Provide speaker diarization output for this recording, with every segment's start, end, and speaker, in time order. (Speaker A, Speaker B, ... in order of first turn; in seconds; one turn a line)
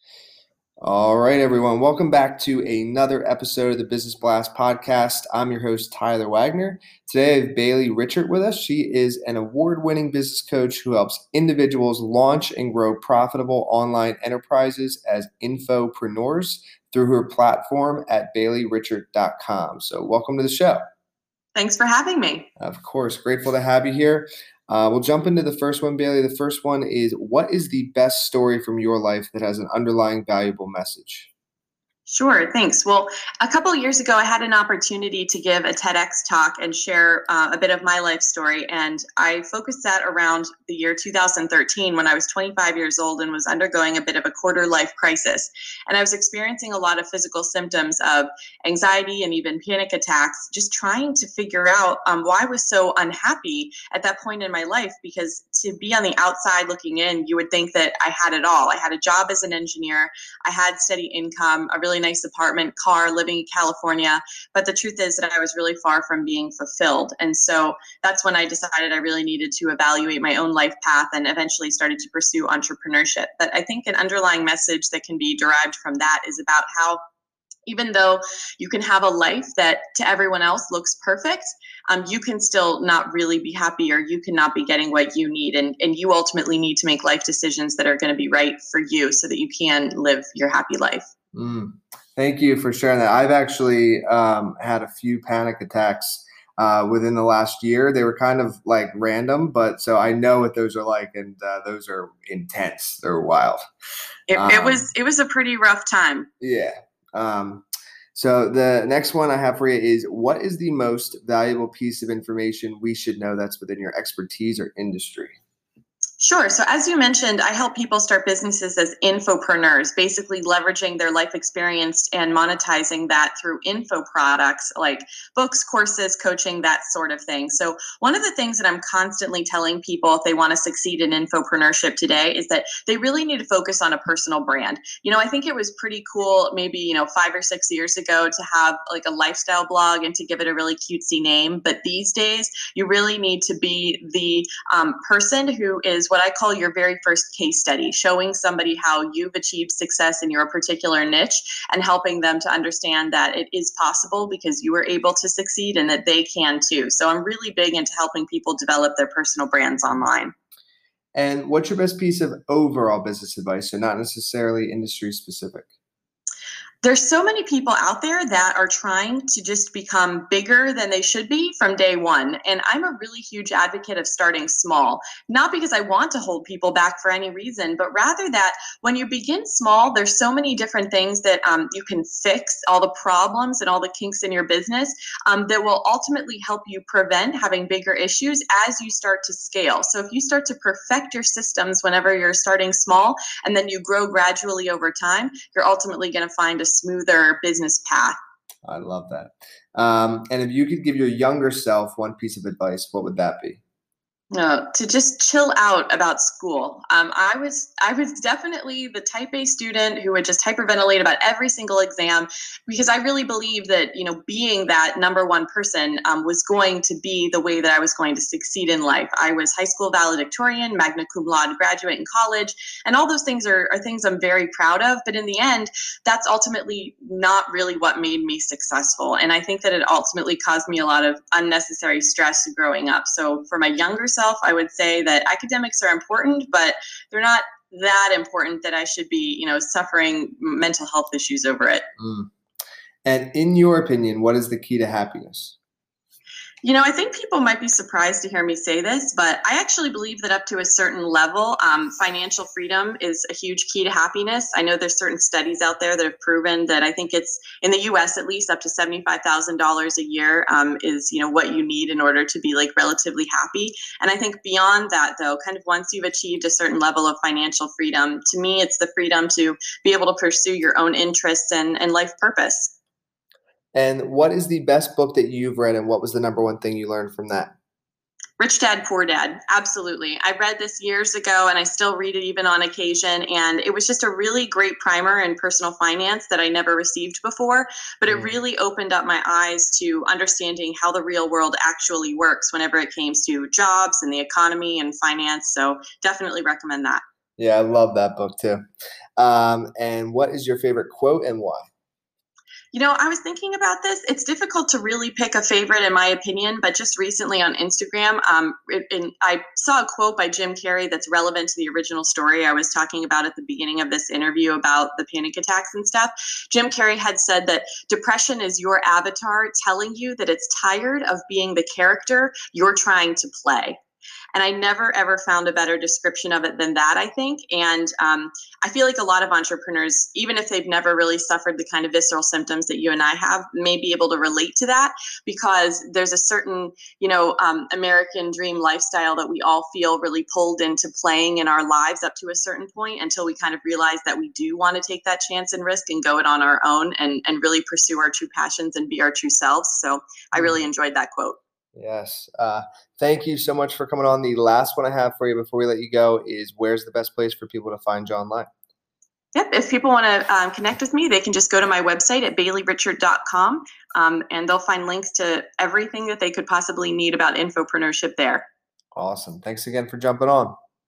Speaker A: 0.8-20.8
Speaker B: 21.6-22.5
Speaker A: 22.6-31.3
Speaker B: 32.1-77.0
Speaker B: 77.7-91.1
Speaker A: 91.3-103.6
Speaker B: 104.3-106.3
Speaker A: 104.3-104.8
Speaker A: 106.4-115.4
Speaker B: 116.2-160.3
Speaker A: 161.2-165.7
Speaker B: 166.8-198.2
Speaker A: 198.7-203.6
Speaker B: 204.3-241.8
Speaker A: 242.0-242.3
Speaker A: 243.1-245.6
Speaker B: 246.6-272.7
Speaker A: 273.8-277.5
Speaker B: 278.4-297.0
Speaker A: 288.1-288.4
Speaker A: 297.4-298.6
Speaker A: 299.2-301.7
Speaker B: 302.7-323.8
Speaker B: 324.3-351.4
Speaker A: 350.4-350.6
Speaker A: 351.8-358.5
Speaker B: 359.4-368.4
Speaker A: 368.9-370.5